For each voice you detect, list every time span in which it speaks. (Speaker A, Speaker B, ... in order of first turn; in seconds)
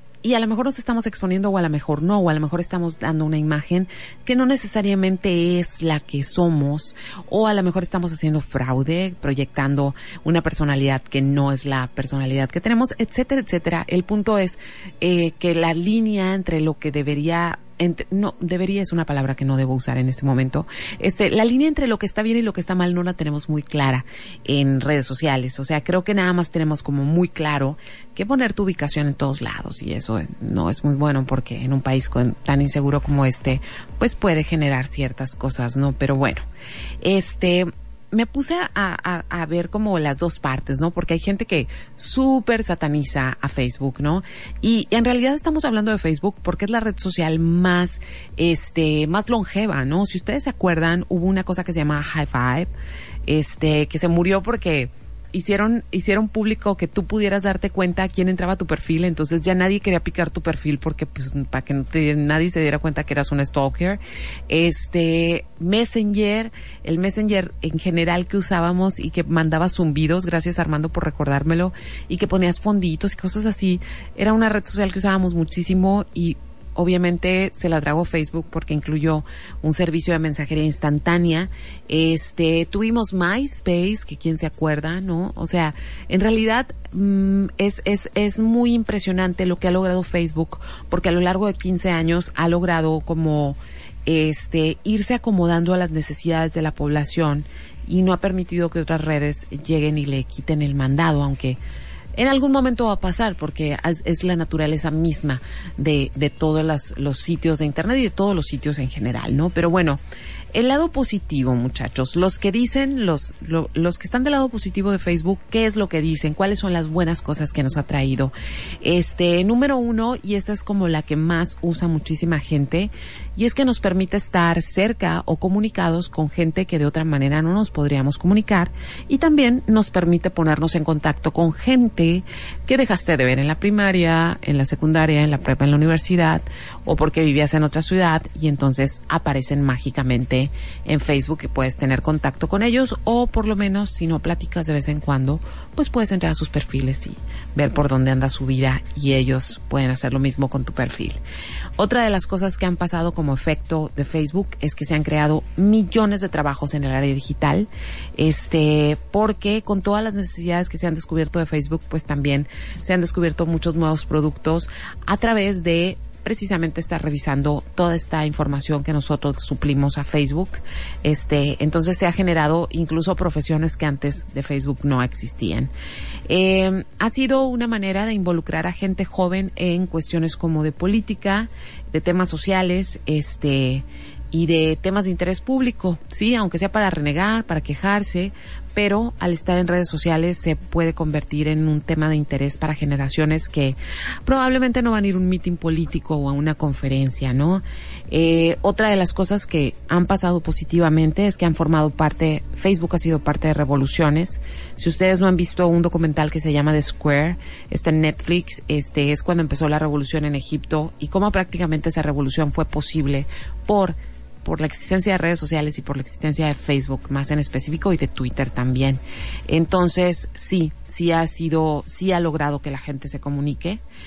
Speaker A: 0.2-36.5, 37.0-52.7, 53.3-101.6, 102.2-110.0, 110.5-151.2, 151.8-175.7, 176.3-223.8